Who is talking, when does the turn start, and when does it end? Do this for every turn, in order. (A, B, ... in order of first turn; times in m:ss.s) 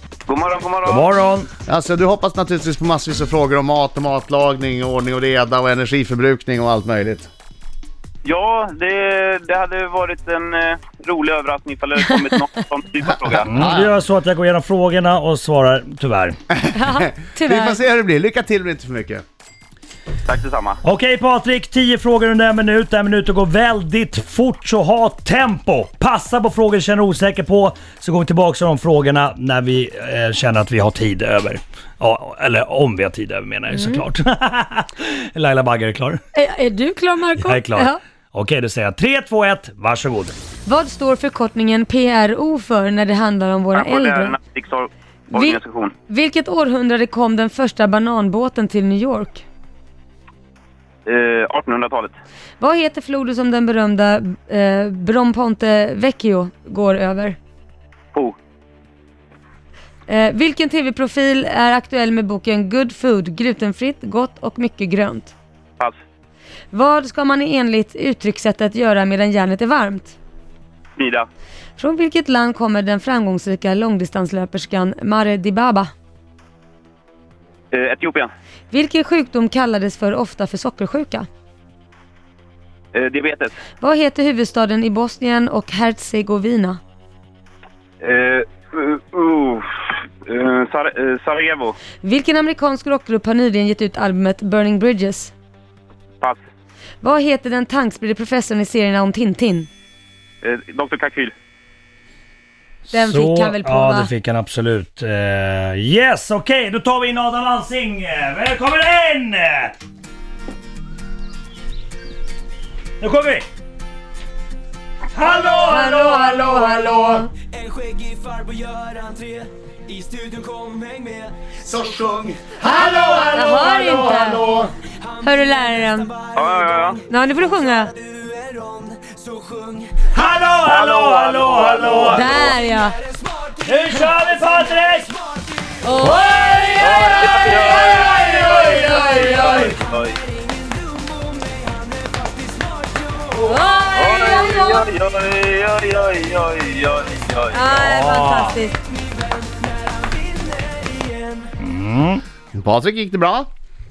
0:00.3-0:01.1 A
0:00.8-0:01.5 B
0:01.7-0:07.3 C
0:08.2-0:13.5 A
0:13.1-0:13.9 C
0:13.5-0:16.4 B
0:16.7-0:17.8 D
0:16.8-0:19.2 C
0:20.3-0:20.8 A
0:20.8-0:36.2 B
0:33.7-0:34.0 D
0:36.3-0:38.0 D
0:37.4-0:40.4 B
0:40.6-0:44.4 D
0:43.8-0:45.9 A
0:45.3-0:49.4 D
0:51.1-0:52.2 A
0:52.6-0:57.4 D
1:00.1-1:05.3 D
1:06.7-1:10.2 D
1:11.0-1:11.3 A
1:11.8-1:15.9 D
1:17.7-1:18.3 A
1:18.7-1:21.3 D
1:22.9-1:23.6 A
1:23.8-1:26.8 D
1:28.0-1:31.8 A
1:32.0-1:35.3 D
1:37.0-1:39.7 D
1:40.4-1:41.3 A
1:42.9-1:49.7 B
1:42.9-1:44.1 D
1:53.0-1:53.5 B
1:55.2-1:56.8 B
1:55.6-1:57.3 D
1:57.6-2:01.4 E
1:58.4-1:58.8 B
2:01.6-2:04.7 C
2:02.8-2:03.7 B
2:03.2-2:04.5 D
2:05.1-2:06.2 D
2:06.3-2:07.0 A
2:07.1-2:08.0 D
2:08.1-2:10.0 E
2:10.0-2:12.6 B
2:10.6-2:12.1 A
2:12.1-2:13.0 D
2:13.6-2:15.3 B
2:15.8-2:17.1 D
2:16.0-2:19.7 B
2:16.8-2:20.2 A
2:18.3-2:19.7 D
2:20.9-2:23.2 E
2:23.3-2:24.9 D
2:24.0-2:27.6 A
2:27.5-2:28.8 D
2:27.7-2:28.6 B
2:29.5-2:31.4 E
2:31.6-2:32.2 B
2:32.5-2:33.5 C